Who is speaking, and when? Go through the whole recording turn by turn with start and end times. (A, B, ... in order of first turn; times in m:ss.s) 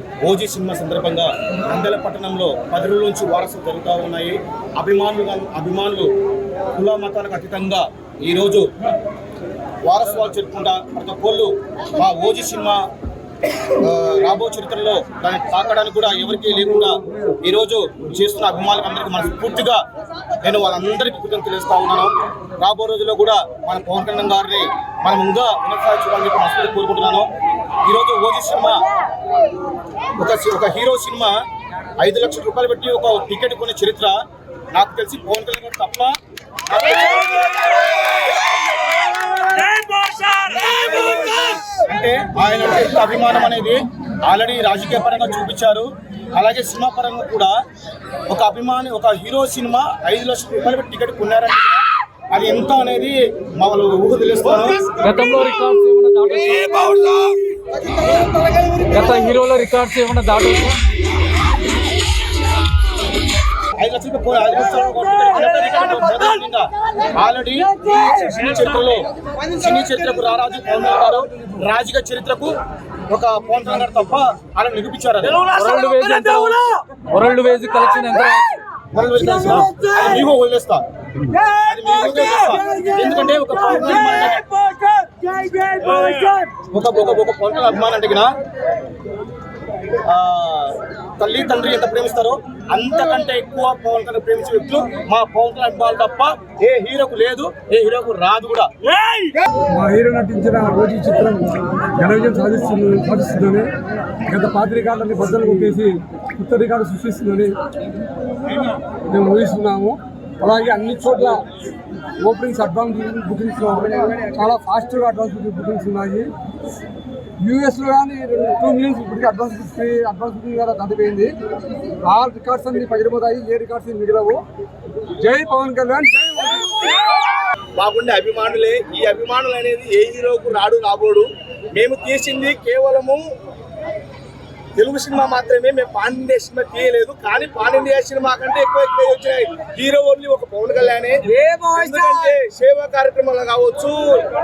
0:00.2-0:06.1 A
0:06.7-0:08.7 A
0:09.8-0:12.9 A
0:13.7-0:19.8 A
0:20.4-0:27.3 A
0:27.8-0:28.9 A
0:30.2-0:31.4 A
0:32.0-0:34.2 A
0:34.7-0:36.1 A
0:36.7-0:38.2 A
0:39.6-0:40.6 B
0:40.7-0:47.5 A
0:48.3-0:55.0 A
0:54.9-0:57.5 B
0:58.8-1:00.8 B
1:03.8-1:12.6 A
1:13.1-1:15.5 A
1:15.4-1:18.6 B
1:18.9-1:24.6 A
1:19.5-1:19.7 B
1:25.3-1:26.0 C
1:26.5-1:28.4 A
1:30.0-1:39.3 A
1:39.7-1:43.7 C
1:44.3-1:47.6 C
1:49.1-1:51.4 C
1:52.2-1:56.3 C
1:57.4-2:01.3 C
2:02.0-2:04.4 C
2:05.2-2:06.9 C
2:07.8-2:11.2 A
2:09.0-2:11.2 D
2:11.8-2:13.2 A
2:12.8-2:13.1 D
2:14.8-2:20.2 D
2:14.9-2:18.8 A
2:19.7-2:21.2 A
2:21.4-2:22.3 C
2:21.8-2:24.2 D
2:21.9-2:22.2 A